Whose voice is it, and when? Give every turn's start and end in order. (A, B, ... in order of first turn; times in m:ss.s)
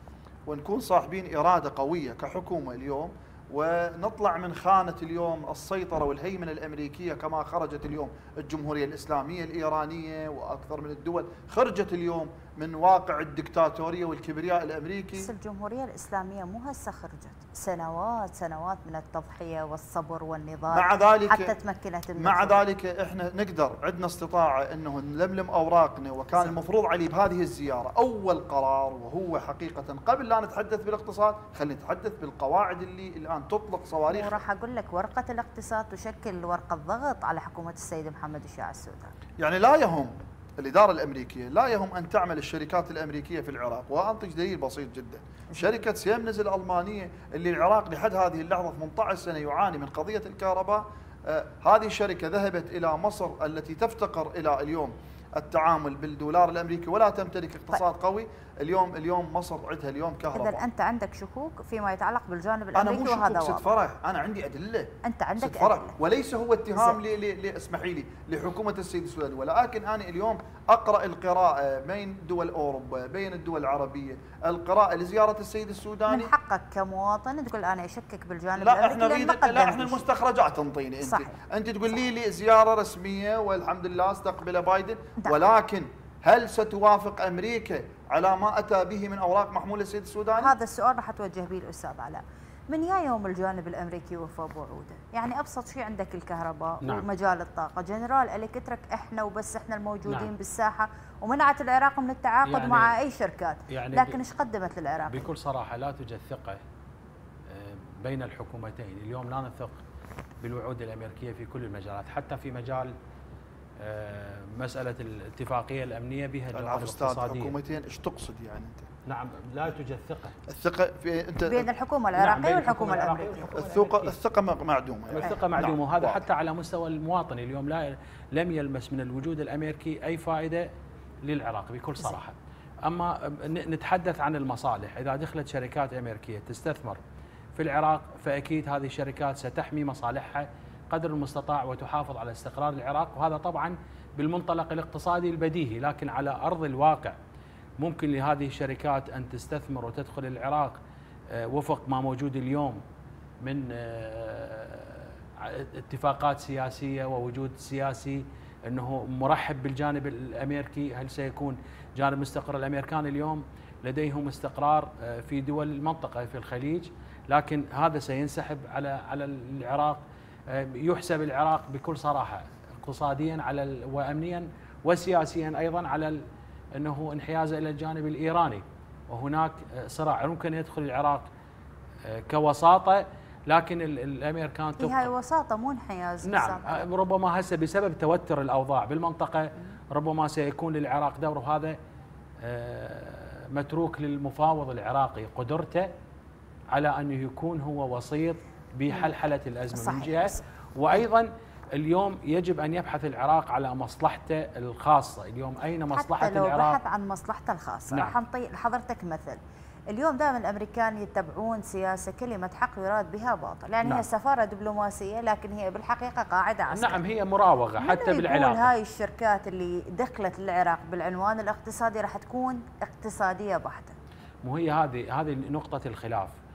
0:00.5-0:15.3 A
0:15.2-0:22.6 B
0:20.7-0:21.6 A
0:22.2-0:34.4 A
0:34.1-0:39.1 B
0:39.4-1:00.6 A
1:00.3-1:03.7 B
1:02.8-1:16.3 A
1:05.0-1:06.0 B
1:16.1-1:20.1 B
1:18.6-1:30.5 A
1:21.0-1:21.4 B
1:30.4-1:45.3 B
1:40.0-1:40.3 C
1:42.5-1:42.9 C
1:43.7-1:44.2 C
1:45.1-1:46.6 C
1:47.5-1:49.8 C
1:50.4-1:52.9 C
1:53.8-1:57.5 C
1:56.5-1:58.9 A
1:59.1-2:00.4 C
2:00.5-2:01.7 A
2:01.5-2:03.5 B
2:02.2-2:04.2 C
2:03.5-2:06.2 A
2:05.1-2:10.7 C
2:11.2-2:17.0 C
2:17.6-2:27.2 C
2:27.8-2:30.8 C
2:31.3-2:32.8 C
2:33.4-2:56.2 C
2:56.8-3:01.3 C
3:02.1-3:05.1 C
3:04.8-3:06.9 B
3:06.3-3:11.8 C
3:12.4-3:15.9 C
3:16.7-3:26.8 C
3:18.9-3:19.2 B
3:19.7-3:20.4 B
3:25.9-3:37.0 B
3:36.7-3:38.7 C
3:37.8-3:44.0 B
3:44.4-3:46.3 C